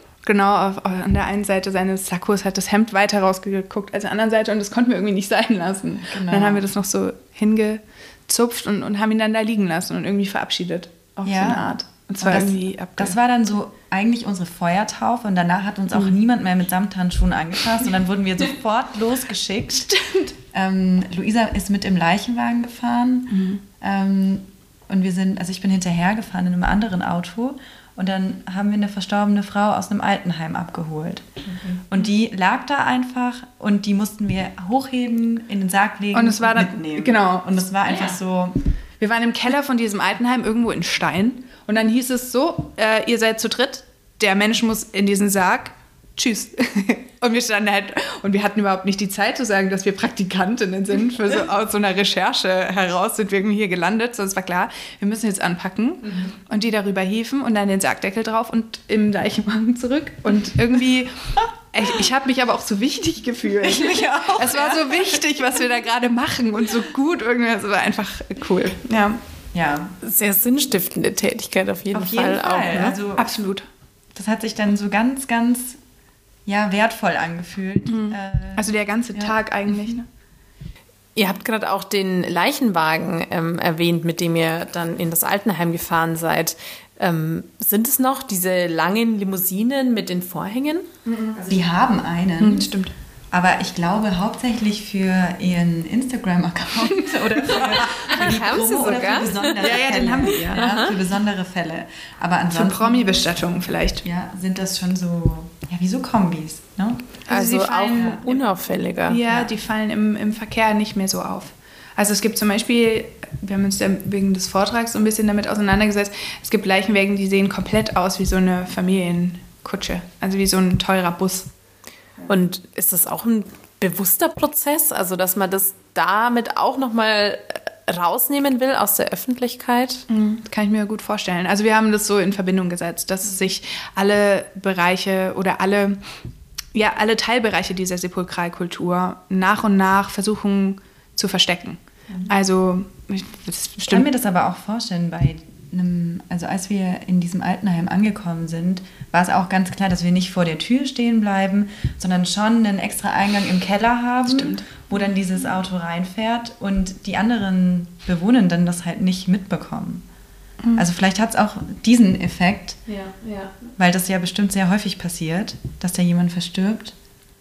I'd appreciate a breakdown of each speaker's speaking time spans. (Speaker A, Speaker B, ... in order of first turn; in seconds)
Speaker A: 0.2-13.2, 23.3-23.6, 36.1-37.6, 39.0-69.2, 73.2-73.7, 77.9-80.1, 91.1-91.4, 92.4-92.9, 96.9-98.3, 99.6-100.7, 102.5-104.0, 107.3-108.4, 109.1-121.5, 130.1-136.0, 136.8-144.1, 154.3-154.6
Speaker B: 6.0-6.7, 11.3-38.6, 63.6-65.2, 69.5-70.0, 71.9-73.3, 74.1-75.8, 76.5-79.3, 91.4-92.7, 93.3-103.2, 104.0-108.2, 109.2-109.5, 143.9-160.0, 160.8-162.8, 163.8-166.9
Speaker C: 70.0-73.0, 81.2-90.9, 97.7-101.0, 107.3-109.2, 122.3-130.1, 162.9-163.6